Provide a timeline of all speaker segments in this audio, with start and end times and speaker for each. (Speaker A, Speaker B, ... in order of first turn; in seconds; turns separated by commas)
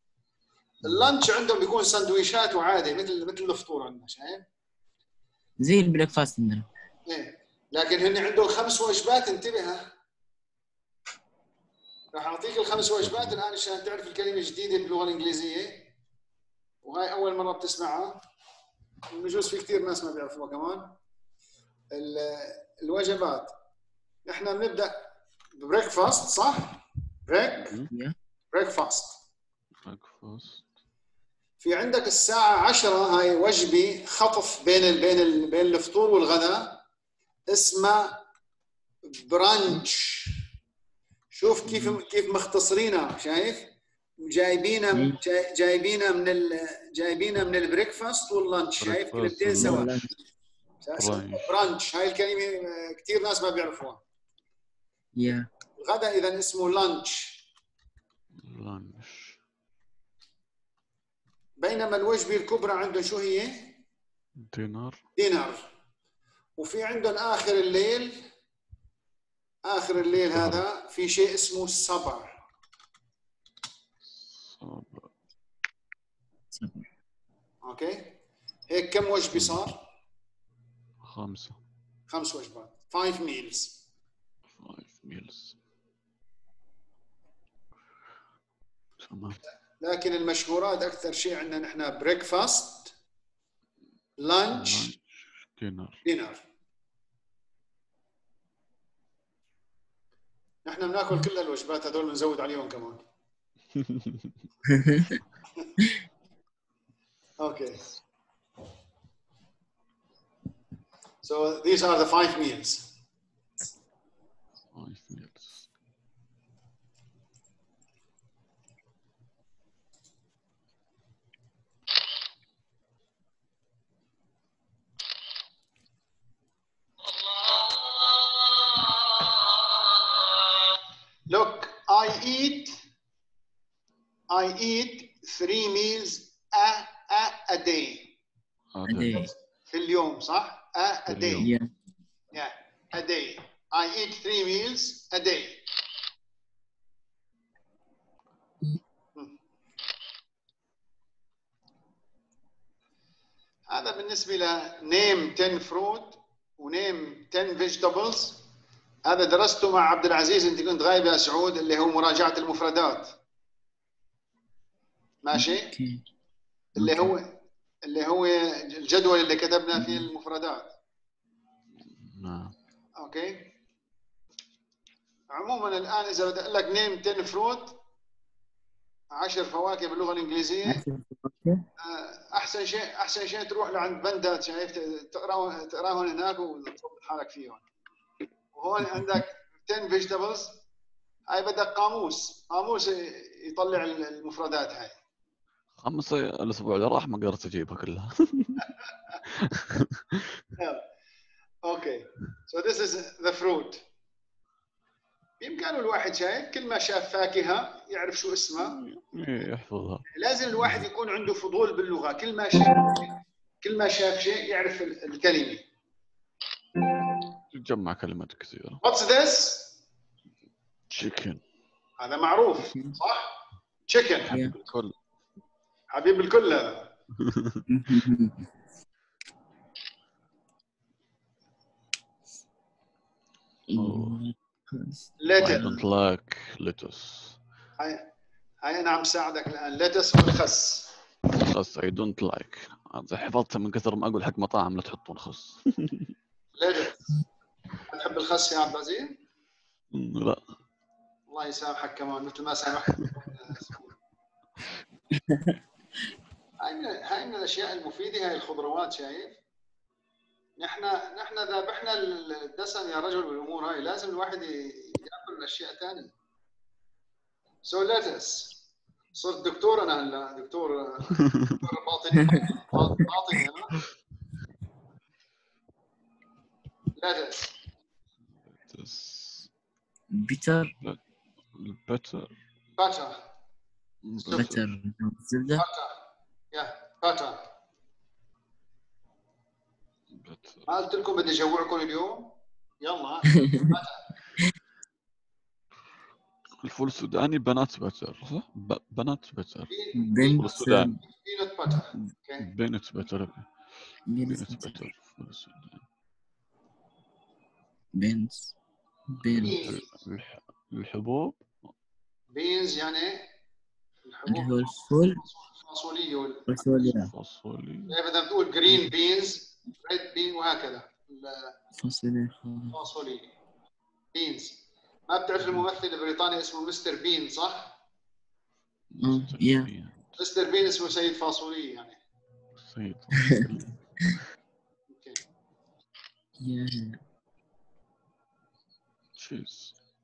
Speaker A: 0.8-4.4, Speaker B: 5.6-6.7, Speaker A: 7.1-9.8, Speaker A: 12.1-15.9, Speaker C: 13.0-13.3, Speaker A: 16.8-18.2, Speaker A: 19.1-20.9, Speaker A: 21.9-23.5, Speaker A: 24.2-25.0, Speaker A: 25.6-27.8, Speaker C: 27.6-27.9, Speaker A: 28.5-29.2, Speaker C: 29.8-30.6, Speaker A: 31.6-36.8, Speaker A: 37.5-38.2, Speaker A: 39.1-40.3, Speaker A: 41.3-50.0, Speaker C: 48.8-49.9, Speaker B: 49.6-50.1, Speaker A: 50.8-54.0, Speaker C: 51.0-51.5, Speaker B: 55.1-55.5, Speaker A: 55.8-57.4, Speaker C: 58.4-59.4, Speaker A: 61.6-63.8, Speaker C: 64.4-65.0, Speaker A: 65.2-65.7, Speaker A: 66.6-68.2, Speaker A: 69.6-72.3, Speaker C: 70.2-70.6, Speaker C: 74.0-75.1, Speaker B: 76.5-76.9, Speaker A: 77.6-78.2, Speaker A: 78.7-79.8, Speaker C: 81.0-81.6, Speaker A: 82.1-83.8, Speaker C: 84.5-85.6, Speaker C: 89.0-89.4, Speaker A: 89.8-92.9, Speaker A: 94.2-94.9, Speaker C: 94.5-96.0, Speaker A: 96.0-96.4, Speaker A: 100.7-103.0, Speaker B: 104.7-105.0, Speaker A: 107.4-107.9, Speaker A: 111.2-112.9, Speaker C: 114.7-115.7, Speaker A: 131.3-132.8, Speaker A: 134.3-138.1, Speaker C: 138.7-139.3, Speaker B: 138.8-139.3, Speaker A: 139.2-141.5, Speaker C: 141.1-141.5, Speaker B: 141.4-141.7, Speaker A: 142.3-145.6, Speaker A: 153.7-158.4, Speaker A: 159.0-163.2, Speaker A: 165.2-165.7, Speaker B: 165.3-166.0, Speaker A: 166.8-170.7, Speaker B: 166.8-167.1, Speaker B: 169.7-170.0, Speaker C: 172.0-172.5, Speaker A: 173.0-173.5, Speaker A: 175.3-177.8, Speaker A: 179.1-180.8, Speaker B: 180.7-181.6, Speaker A: 181.8-187.6, Speaker A: 188.5-190.6, Speaker A: 191.3-195.0, Speaker C: 195.8-198.7, Speaker C: 199.3-200.4, Speaker A: 200.6-200.8, Speaker A: 201.6-203.8, Speaker A: 205.4-208.8, Speaker C: 208.6-210.0, Speaker A: 210.1-215.6, Speaker C: 210.6-210.8, Speaker C: 217.5-218.8, Speaker A: 218.8-219.7, Speaker C: 220.9-221.4, Speaker A: 222.0-224.3, Speaker C: 224.3-224.9, Speaker A: 225.9-226.9, Speaker C: 227.2-227.6, Speaker B: 227.7-228.4, Speaker B: 233.7-235.8, Speaker C: 233.7-234.2, Speaker A: 235.2-235.8, Speaker C: 235.4-237.4, Speaker A: 237.8-238.1, Speaker A: 238.6-240.9, Speaker C: 241.3-246.1, Speaker A: 246.6-247.1, Speaker A: 247.9-249.2, Speaker C: 249.9-250.4, Speaker A: 251.3-253.9, Speaker A: 256.6-259.4, Speaker A: 260.6-266.1, Speaker A: 267.6-268.6, Speaker A: 269.1-273.8, Speaker A: 277.0-277.5, Speaker C: 278.5-279.5, Speaker B: 280.1-280.7, Speaker C: 281.5-282.3, Speaker A: 282.8-283.2, Speaker C: 284.0-284.6, Speaker A: 284.2-284.6, Speaker B: 284.3-285.6, Speaker A: 285.6-286.0, Speaker A: 286.5-287.4, Speaker C: 290.1-290.7, Speaker A: 290.7-294.0, Speaker B: 293.3-293.6, Speaker C: 296.6-299.7, Speaker A: 299.7-302.5, Speaker B: 299.9-301.0, Speaker C: 300.4-301.0, Speaker C: 302.4-303.5, Speaker B: 304.1-304.8, Speaker C: 304.2-305.8, Speaker B: 307.9-308.5, Speaker B: 309.2-309.6, Speaker C: 309.2-311.5, Speaker A: 309.4-309.9, Speaker A: 312.3-313.3, Speaker A: 314.0-316.8, Speaker B: 314.3-315.2, Speaker B: 316.5-317.1, Speaker C: 316.9-317.9, Speaker A: 317.9-321.5, Speaker B: 321.8-322.8, Speaker A: 322.7-323.3, Speaker A: 324.1-327.7, Speaker C: 328.9-330.0, Speaker B: 329.0-329.7, Speaker A: 330.2-332.0, Speaker C: 332.6-333.7, Speaker A: 334.9-335.2, Speaker B: 336.4-337.0, Speaker C: 339.1-339.7